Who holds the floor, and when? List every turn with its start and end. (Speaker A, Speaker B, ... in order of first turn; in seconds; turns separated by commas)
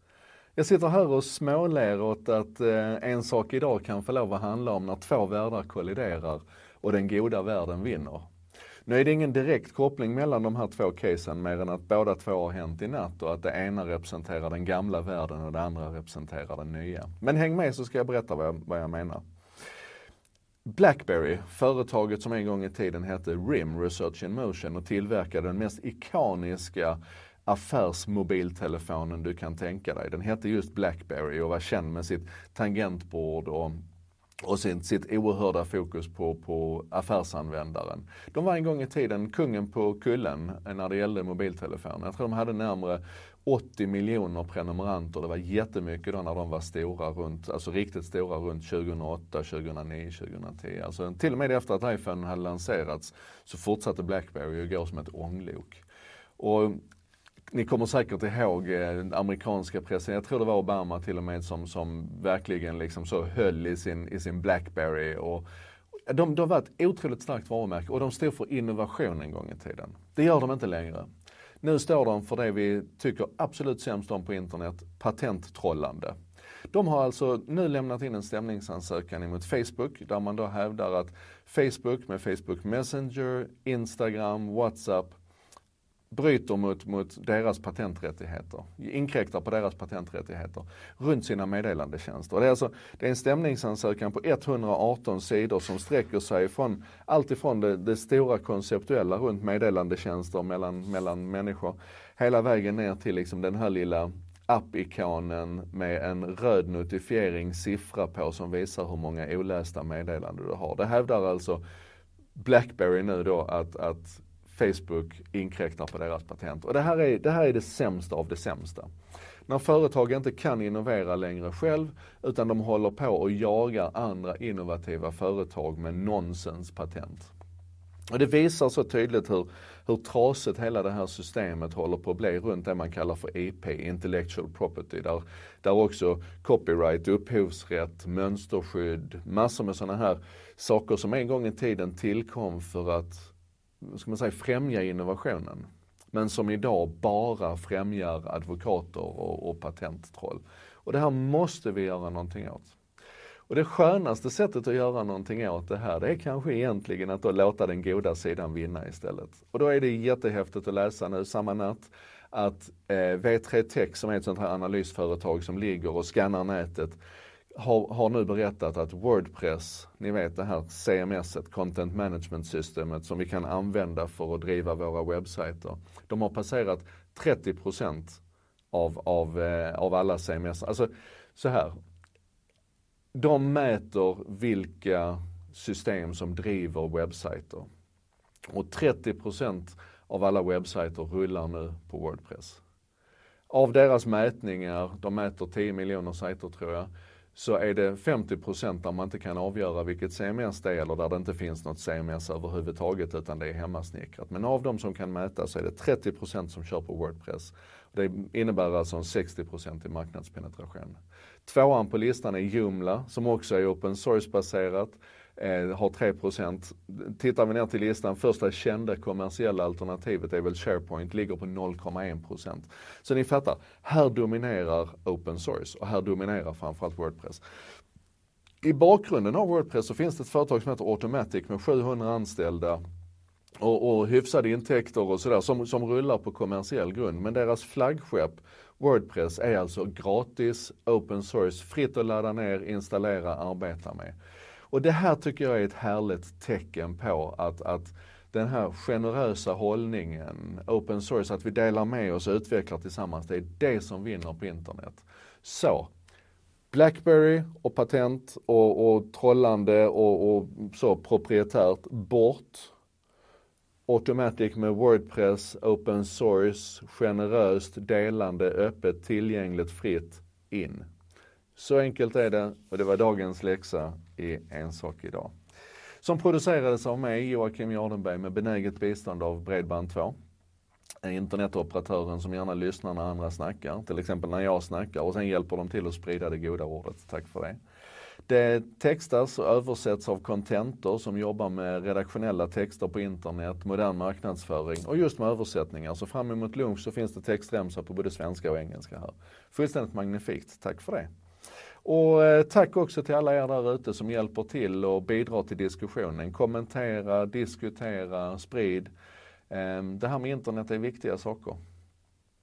Speaker A: 0.6-8.3, Speaker A: 8.8-19.2, Speaker A: 20.7-33.8, Speaker A: 34.4-55.8, Speaker A: 56.4-56.8, Speaker A: 57.5-65.4, Speaker A: 66.1-71.1, Speaker A: 71.6-76.1, Speaker A: 76.7-85.2, Speaker A: 86.1-111.6, Speaker A: 112.3-118.9, Speaker A: 119.5-127.3, Speaker A: 128.1-152.8, Speaker A: 153.5-167.0, Speaker A: 167.5-178.2, Speaker A: 178.7-181.7, Speaker A: 183.1-187.7, Speaker A: 188.5-192.6, Speaker A: 193.5-227.4, Speaker A: 228.6-232.8, Speaker A: 233.6-244.1, Speaker A: 244.7-255.9, Speaker A: 256.7-262.7, Speaker A: 263.9-270.9, Speaker A: 271.6-275.3, Speaker A: 276.0-280.1, Speaker A: 281.0-287.6, Speaker A: 288.3-301.1, Speaker A: 301.8-308.9, Speaker A: 309.5-311.6